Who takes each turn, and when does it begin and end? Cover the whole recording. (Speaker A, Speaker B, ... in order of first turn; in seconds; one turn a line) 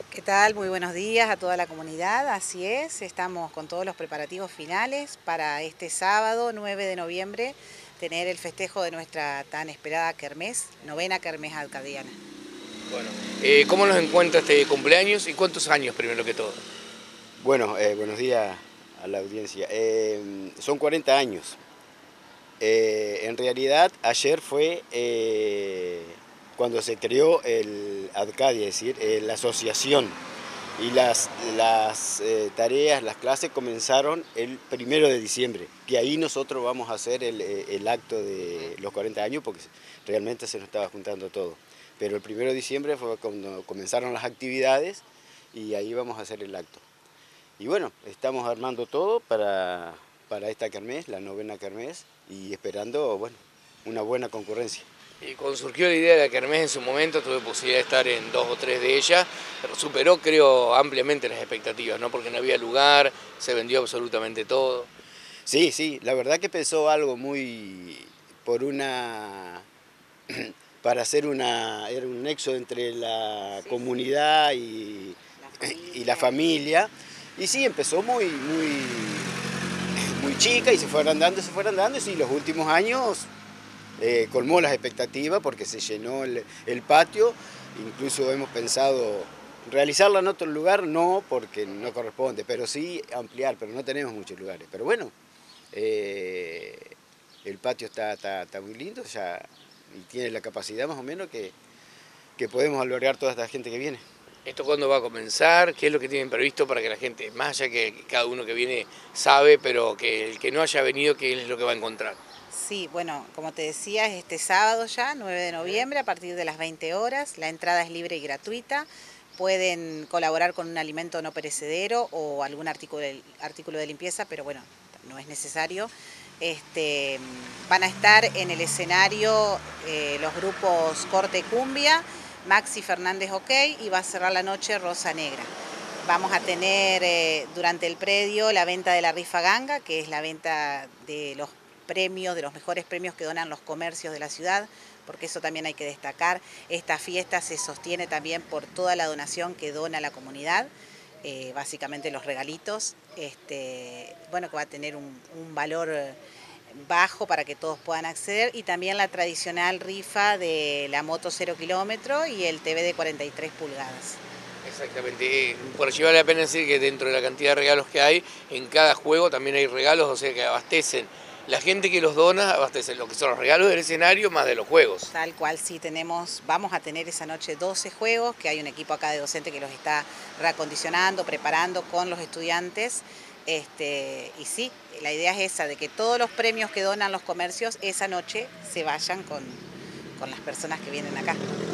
Speaker A: 0.1-12.2
Speaker B: 12.9-16.6
Speaker C: 17.4-21.6
Speaker C: 22.6-30.2
Speaker C: 30.8-46.8
Speaker C: 47.6-54.9
Speaker B: 55.2-64.9
Speaker C: 65.5-69.7
Speaker C: 70.3-79.4
Speaker A: 73.5-73.9
Speaker A: 75.4-76.4
Speaker C: 80.0-83.3
Speaker C: 84.0-95.1
Speaker C: 95.7-101.5
Speaker C: 102.4-104.0
Speaker B: 104.4-112.2
Speaker A: 112.5-135.5
Speaker A: 136.0-150.7
Speaker A: 151.2-156.2
Speaker A: 156.7-164.2
Speaker B: 164.6-175.1
Speaker A: 175.1-189.6
Speaker A: 190.2-191.4